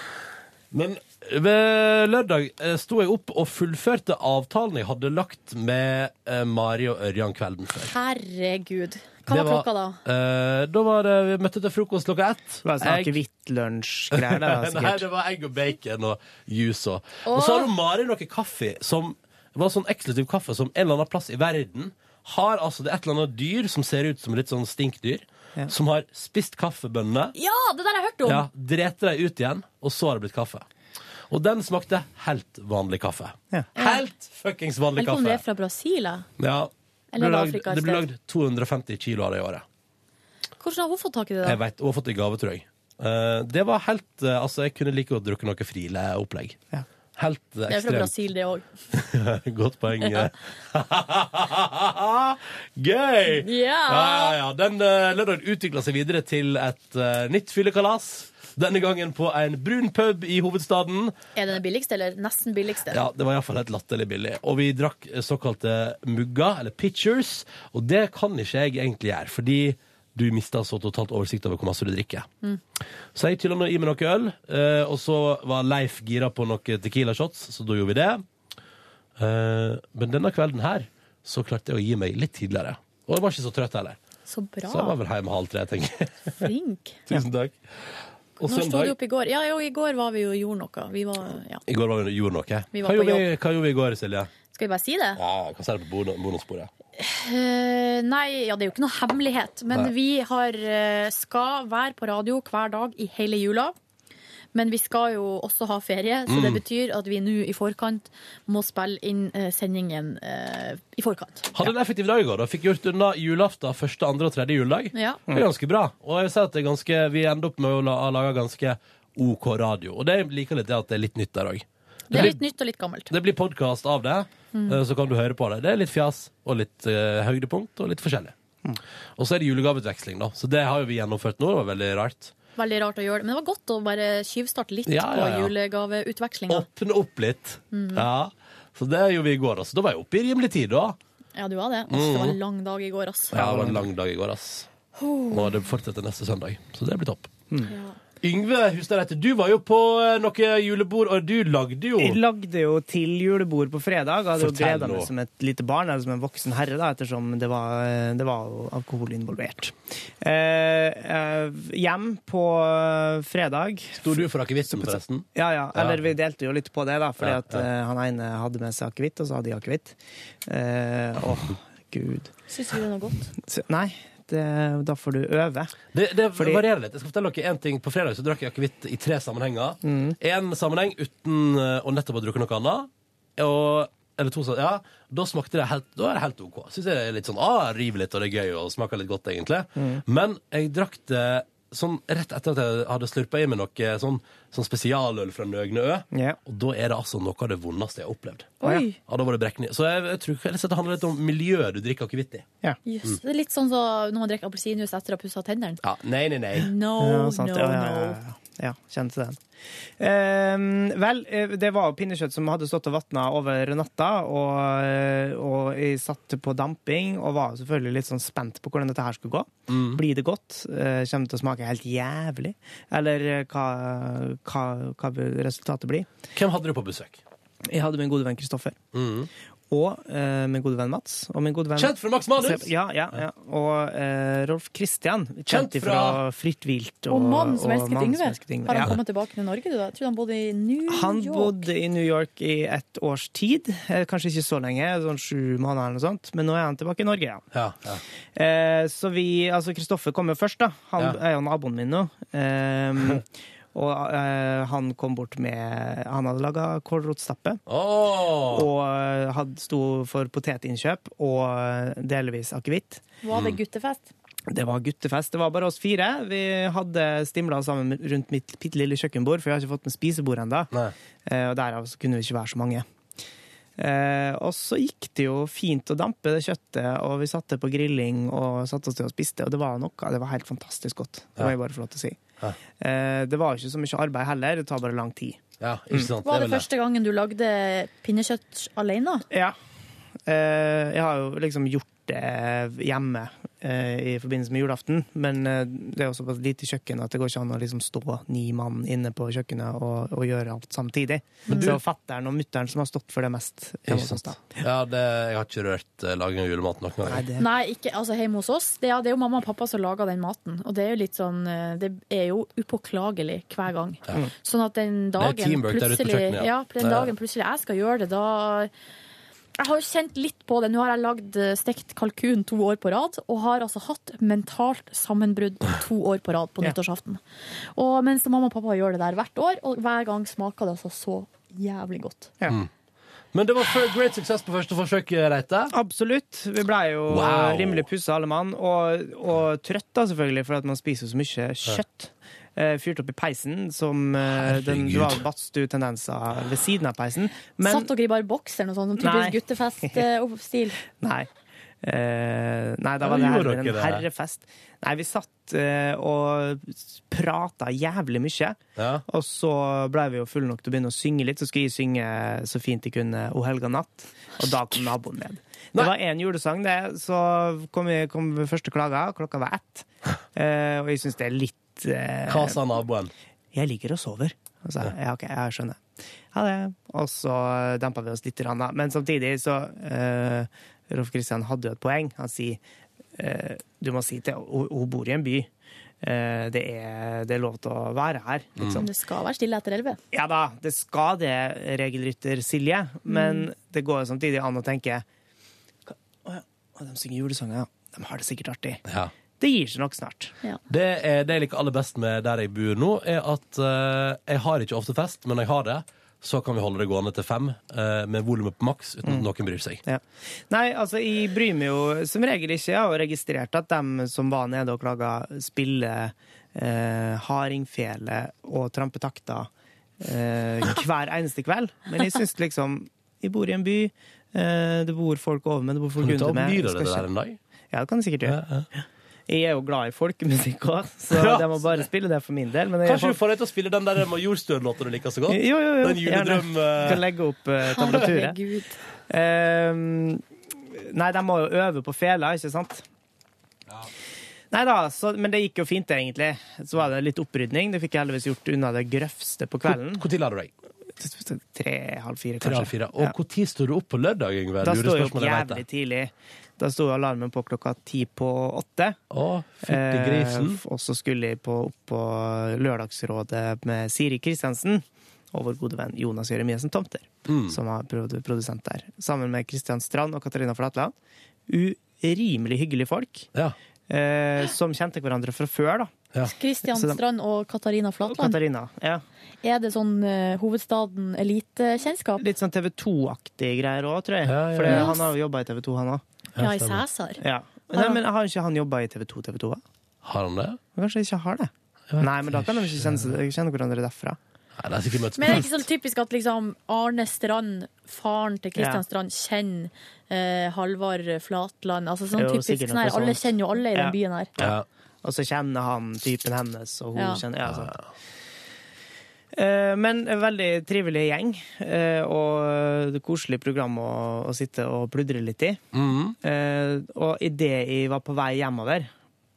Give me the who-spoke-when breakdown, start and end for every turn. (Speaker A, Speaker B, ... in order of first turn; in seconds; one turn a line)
Speaker A: 0.7-7.9
Speaker B: 7.8-10.0
Speaker A: 9.3-13.2
Speaker C: 12.6-15.1
Speaker A: 14.1-27.4
Speaker B: 17.3-17.7
Speaker B: 27.4-28.5
Speaker A: 28.2-30.6
Speaker A: 31.3-35.4
Speaker B: 33.8-34.0
Speaker B: 35.0-36.3
Speaker A: 36.4-39.6
Speaker B: 37.1-38.0
Speaker B: 40.6-41.6
Speaker A: 41.4-46.6
Speaker A: 47.2-48.1
Speaker B: 47.7-48.7
Speaker A: 48.9-61.1
Speaker B: 50.0-50.3
Speaker B: 53.3-54.4
Speaker B: 61.4-63.0
Speaker A: 62.9-72.3
Speaker A: 73.1-78.2
Speaker A: 79.2-84.0
Speaker B: 84.3-85.0
Speaker A: 84.7-86.5
Speaker B: 86.4-87.0
Speaker A: 87.1-87.6
Speaker A: 88.4-88.9
Speaker B: 88.5-91.6
Speaker A: 91.7-94.3
Speaker B: 92.7-93.3
Speaker B: 94.5-95.2
Speaker A: 95.2-96.7
Speaker B: 97.0-103.7
Speaker B: 104.5-111.5
Speaker A: 106.3-106.6
Speaker A: 111.5-122.4
Speaker B: 114.9-115.2
Speaker B: 122.1-123.1
Speaker A: 123.1-128.3
Speaker B: 124.5-124.8
Speaker A: 129.2-132.3
Speaker B: 132.6-136.7
Speaker A: 134.9-135.5
Speaker A: 136.5-141.0
Speaker B: 137.7-138.1
Speaker B: 141.3-143.3
Speaker A: 141.9-142.4
Speaker C: 143.3-143.9
Speaker A: 143.3-144.7
Speaker B: 145.0-145.6
Speaker A: 145.3-147.3
Speaker B: 147.7-148.0
Speaker A: 148.2-152.2
Speaker C: 152.0-172.3
Speaker A: 154.4-155.1
Speaker A: 164.0-166.1
Speaker A: 167.2-167.6
Speaker B: 172.5-173.3
Speaker C: 173.4-175.8
Speaker A: 175.9-202.4
Speaker C: 176.3-176.6
Speaker C: 179.8-180.2
Speaker C: 189.8-190.0
Speaker C: 196.1-196.4
Speaker B: 198.6-199.0
Speaker B: 202.9-205.8
Speaker A: 205.8-206.7
Speaker B: 206.6-208.2
Speaker C: 207.0-209.4
Speaker C: 210.0-226.1
Speaker A: 219.7-220.0
Speaker A: 226.3-227.2
Speaker C: 227.7-228.8
Speaker A: 228.9-229.3
Speaker C: 229.7-238.9
Speaker A: 231.8-232.7
Speaker A: 235.5-236.2
Speaker B: 237.1-241.7
Speaker C: 240.9-247.4
Speaker A: 247.5-248.0
Speaker C: 248.3-257.6
Speaker A: 257.7-258.7
Speaker C: 258.5-263.0
Speaker B: 263.2-264.1
Speaker A: 263.3-263.6
Speaker C: 264.5-270.7
Speaker C: 271.3-272.9
Speaker C: 273.8-282.2
Speaker C: 282.8-285.4
Speaker A: 285.6-286.6
Speaker B: 286.2-289.3
Speaker C: 289.3-289.6
Speaker C: 290.3-304.6
Speaker B: 301.5-301.8
Speaker A: 303.9-307.2
Speaker C: 307.1-307.5
Speaker B: 307.4-318.7
Speaker A: 315.2-317.1
Speaker B: 319.6-327.2
Speaker B: 327.8-332.3
Speaker A: 333.3-335.7
Speaker C: 335.7-347.9
Speaker A: 337.1-337.9
Speaker A: 344.3-345.2
Speaker B: 347.6-350.8
Speaker C: 349.0-350.1
Speaker C: 350.9-351.3
Speaker C: 351.8-372.6
Speaker A: 353.0-354.1
Speaker A: 358.8-359.0
Speaker A: 372.3-373.1
Speaker C: 373.5-382.6
Speaker C: 383.2-385.5
Speaker C: 386.0-388.9
Speaker B: 388.7-390.0
Speaker C: 390.1-395.1
Speaker B: 393.1-393.5
Speaker C: 395.9-398.8
Speaker A: 398.9-399.1
Speaker C: 399.4-400.4
Speaker A: 400.7-409.8
Speaker C: 409.8-427.1
Speaker A: 426.0-427.4
Speaker C: 427.7-433.2
Speaker A: 428.3-428.7
Speaker A: 431.1-431.8
Speaker A: 432.8-437.1
Speaker C: 435.3-438.4
Speaker B: 437.6-438.8
Speaker C: 439.1-442.8
Speaker C: 444.5-450.1
Speaker A: 449.7-450.5
Speaker C: 451.0-453.1
Speaker A: 452.4-455.6
Speaker C: 454.6-459.0
Speaker A: 459.1-460.6
Speaker C: 459.6-470.9
Speaker A: 467.3-467.6
Speaker C: 471.5-473.3
Speaker C: 473.9-475.9
Speaker B: 476.3-478.4
Speaker C: 476.7-477.0
Speaker C: 478.1-479.0
Speaker B: 479.4-482.2
Speaker C: 482.2-486.0
Speaker A: 484.2-484.9
Speaker B: 484.7-485.0
Speaker A: 486.4-486.8
Speaker B: 486.4-488.0
Speaker C: 487.2-489.6
Speaker A: 490.0-490.6
Speaker C: 490.8-494.2
Speaker A: 491.9-493.1
Speaker A: 494.6-495.6
Speaker B: 495.2-504.3
Speaker C: 498.6-498.8
Speaker C: 502.1-507.8
Speaker A: 504.4-504.6
Speaker B: 506.9-507.2
Speaker A: 507.5-507.8
Speaker C: 509.3-515.6
Speaker A: 515.7-516.2
Speaker C: 516.2-518.9